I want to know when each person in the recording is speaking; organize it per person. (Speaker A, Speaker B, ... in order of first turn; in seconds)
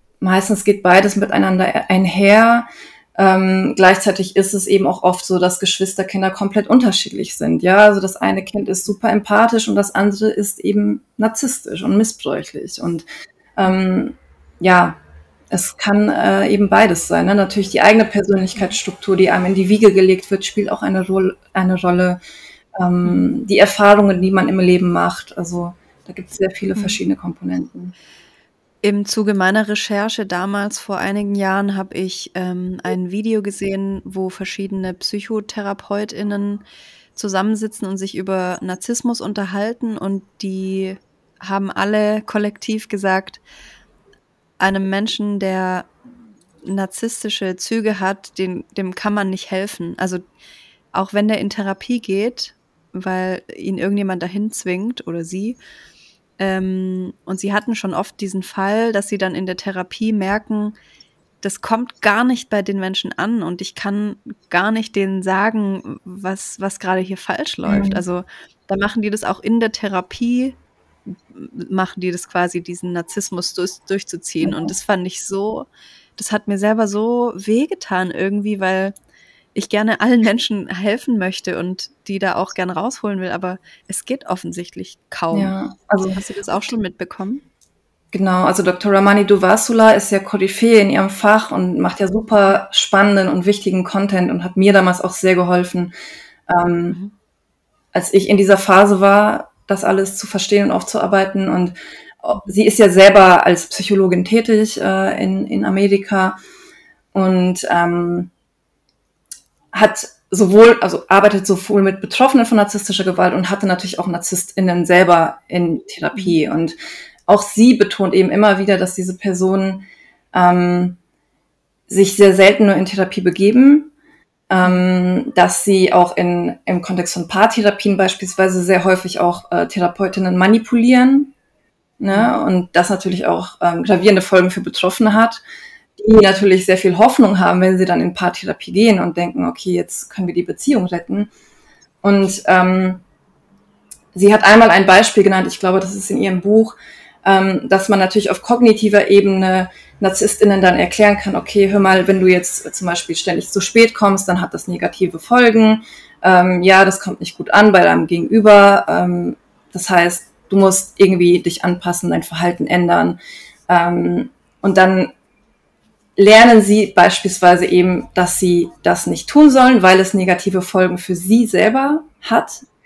Speaker A: 0.2-13.1, 13.6-15.0, 15.5-22.2, 22.8-27.9, 67.7-68.0, 74.4-74.7, 85.3-86.2, 88.1-95.9, 96.5-97.0, 97.9-106.3, 107.1-108.3, 109.7-116.8, 117.3-121.0, 121.9-123.9, 124.5-131.3, 132.0-135.4, 136.0-141.3, 142.0-143.0, 144.1-165.1, 166.2-172.6
Speaker B: 28.8-36.6, 37.1-43.4, 44.6-45.9, 46.6-50.2, 50.9-55.6, 56.4-60.7, 61.4-78.9, 79.5-85.5, 86.1-87.4